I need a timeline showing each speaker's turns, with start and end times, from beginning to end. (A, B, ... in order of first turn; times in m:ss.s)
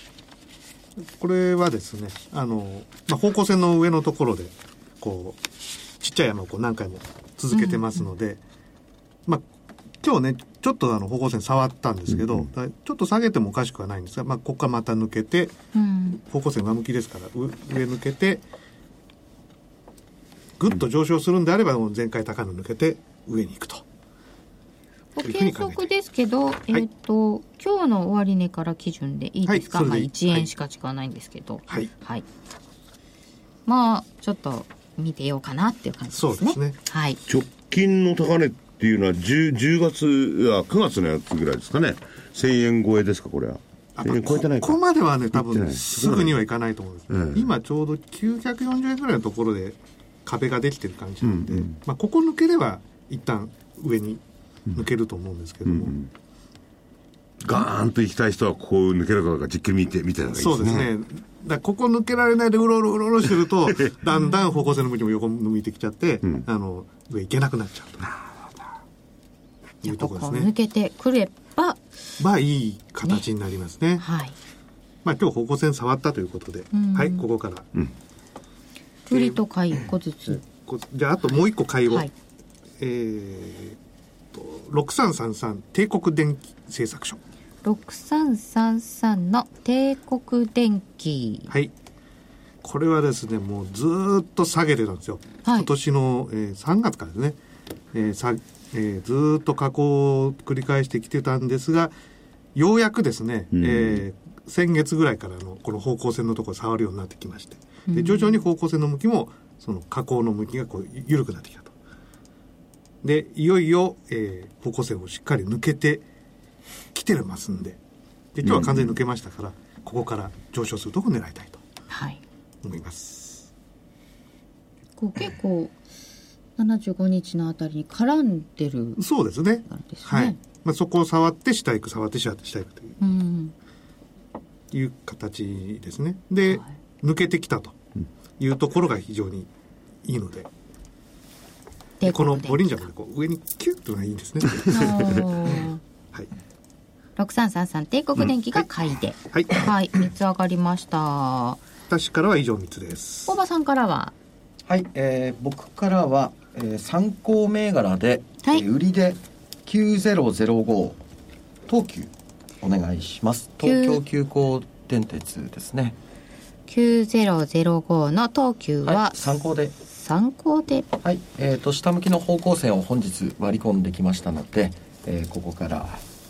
0:01.2-0:05.4 A
0:06.0-0:08.4 A
0:07.5-0:07.9 B
0:10.0-0:18.4 A
0:12.1-0:12.5 C
0:15.7-0:16.2 B
0:20.6-0:23.8 A
0:25.2-0:32.2 B
0:25.2-0:25.9 A
0:29.5-0:30.5 A
0:33.7-0:37.2 B
0:36.1-0:36.8 A
0:37.3-0:44.8 C
0:44.0-0:54.2 A
0:45.3-0:46.4 C
0:47.1-0:47.5 C
0:51.2-0:51.8 C
0:54.7-0:56.0 A
0:55.6-0:56.1 C
0:57.4-1:00.9 C
1:00.4-1:08.2 A
1:09.8-1:10.5 A
1:09.8-1:11.8 B
1:12.2-1:14.1 A
1:14.0-1:14.4 B
1:15.0-1:17.7 A
1:16.7-1:17.2 B
1:19.1-1:20.4 B
1:19.1-1:19.4 A
1:20.4-1:22.1 A
1:22.8-1:23.8 A
1:24.3-1:27.2 A
1:27.6-1:31.5 B
1:32.6-1:37.4 A
1:35.4-1:35.7 B
1:37.9-1:41.9 A
1:42.6-1:51.7 A
1:43.5-1:44.0 C
1:47.9-1:48.4 B
1:53.0-1:56.0 A
1:56.9-1:57.8 A
1:58.4-2:01.6 A
1:58.4-1:58.9 C
2:01.9-2:02.2 B
2:02.6-2:03.5 A
2:05.0-2:05.7 B
2:06.6-2:09.0 B
2:09.0-2:13.0 A
2:09.7-2:10.4 B
2:13.0-2:13.5 B
2:14.7-2:17.8 A
2:18.4-2:19.5 A
2:20.0-2:20.5 A
2:22.0-2:22.8 B
2:22.0-2:25.2 A
2:24.7-2:25.8 B
2:27.2-2:31.6 B
2:29.3-2:29.7 A
2:31.9-2:33.4 A
2:33.3-2:34.1 B
2:34.7-2:41.0 D
2:41.7-2:46.0 D
2:43.6-2:44.0 B
2:46.7-2:49.2 B
2:48.8-2:49.8 D
2:49.9-2:50.9 B
2:51.0-2:56.0 D